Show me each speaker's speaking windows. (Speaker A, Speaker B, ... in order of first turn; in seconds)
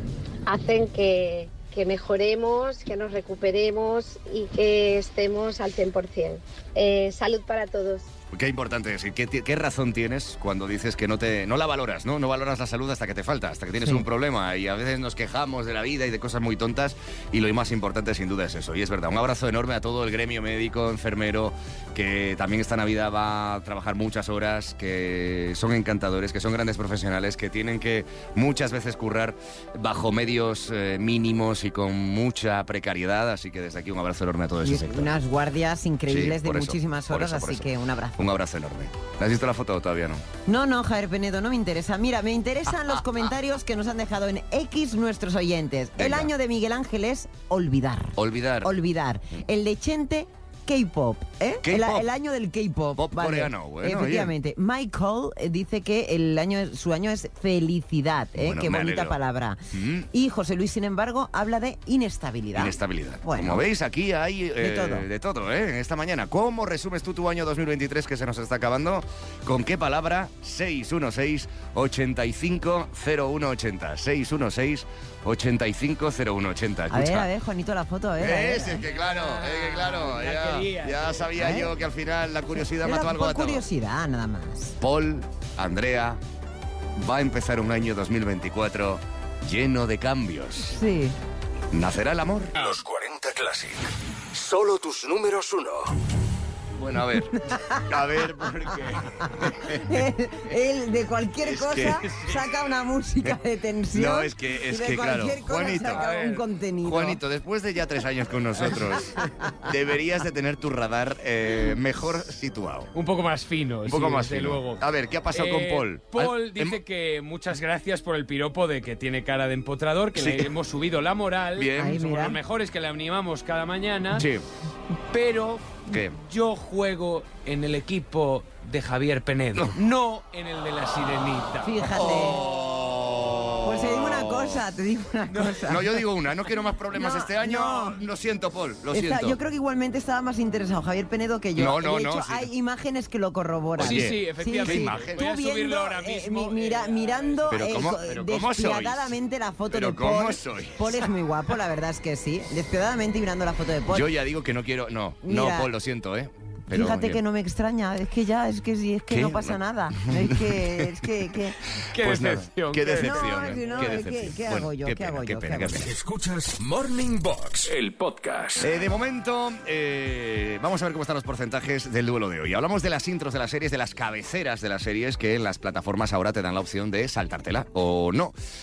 Speaker A: 0.5-8.1
Speaker B: 8.3-35.1, 36.1-40.2, 46.0-46.3, 48.2-48.7, 51.6-52.1, 53.0-54.3, 58.4-59.2, 59.7-60.1, 62.6-77.3, 78.2-83.7, 84.8-86.2, 87.0-90.8, 91.7-92.6, 96.8-99.9, 101.4-102.5, 103.9-106.1, 106.8-112.9, 113.9-116.8, 120.2-120.5, 121.6-122.0, 124.1-124.4, 125.9-126.2, 131.9-134.6, 135.7-139.4, 141.6-142.5, 143.8-145.2, 147.5-149.2, 149.7-151.1, 153.9-157.2, 159.1-161.1, 161.9-165.9, 168.6-178.3
Speaker C: 13.8-14.1, 34.6-38.3, 40.5-59.6, 60.1-63.7, 64.6-65.1, 76.9-78.9, 81.3-81.7, 82.8-84.8, 90.6-91.2, 97.3-107.2, 109.2-109.5, 121.8-122.4, 131.6-132.4, 133.6-136.0, 136.9-138.1, 138.9-154.1, 155.2-155.7, 156.7-161.6, 163.0-165.9
Speaker D: 79.0-81.3, 105.9-106.4, 113.0-124.3, 125.1-131.8, 135.3-135.6, 143.8-147.7, 161.9-164.0
Speaker E: 92.5-95.9, 165.8-168.7